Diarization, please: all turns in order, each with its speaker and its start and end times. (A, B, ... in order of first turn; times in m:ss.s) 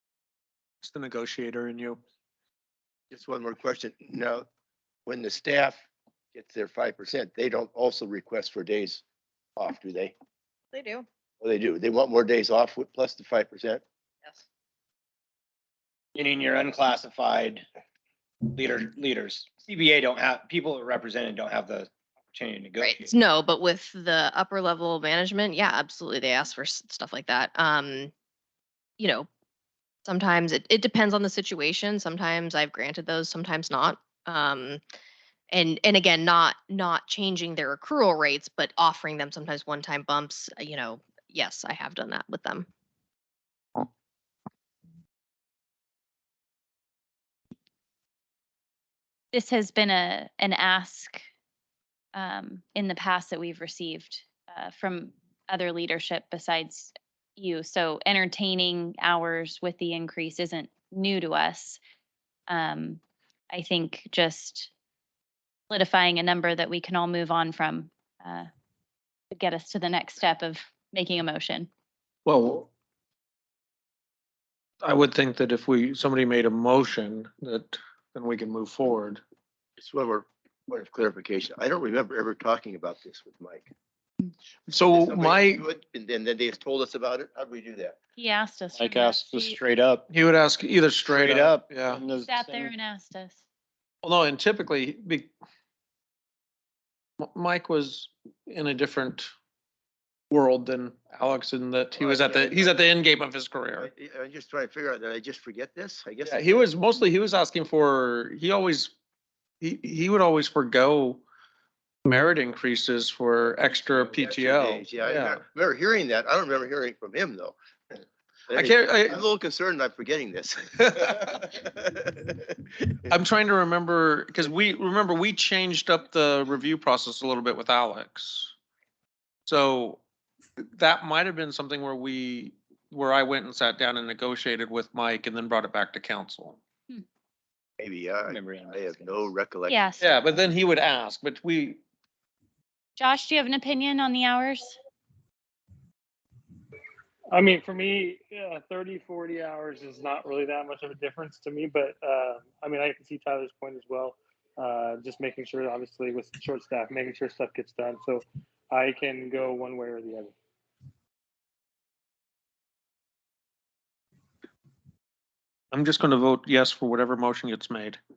0:00.8-0:02.0 A
0:03.1-0:04.5 B
0:05.1-0:09.0 B
0:09.6-0:10.1 B
0:10.7-0:11.1 C
0:11.4-0:13.8 B
0:16.2-0:17.6 D
0:18.5-0:23.1 D
0:22.8-0:28.1 C
0:29.0-0:29.3 C
0:30.0-0:34.8 C
0:35.5-0:42.7 C
0:49.3-0:51.2 E
0:52.2-1:01.8 E
1:02.5-1:03.0 E
1:03.5-1:04.7 E
1:05.7-1:08.5 E
1:09.3-1:11.7 E
1:12.3-1:12.7 A
1:14.8-1:19.2 A
1:19.8-1:23.7 B
1:24.7-1:25.6 A
1:24.9-1:28.0 B
1:28.2-1:29.6 E
1:28.8-1:30.0 D
1:30.1-1:32.0 A
1:31.0-1:32.7 D
1:32.3-1:33.4 E
1:34.0-1:35.3 A
1:37.2-1:39.3 A
1:40.3-1:43.9 A
1:42.0-1:42.8 B
1:43.8-1:46.6 B
1:46.2-1:48.9 A
1:49.6-1:51.2 A
1:52.0-1:55.4 A
1:53.9-1:57.6 B
1:58.5-2:02.5 B
1:58.5-1:59.2 A
2:03.1-2:08.5 A
2:09.5-2:10.0 A
2:10.6-2:16.6 A
2:17.8-2:19.9 B
2:18.3-2:19.3 D
2:19.7-2:20.0 E
2:20.0-2:21.8 A
2:23.0-2:24.8 E
2:27.3-2:40.3 F
2:45.7-2:48.0 A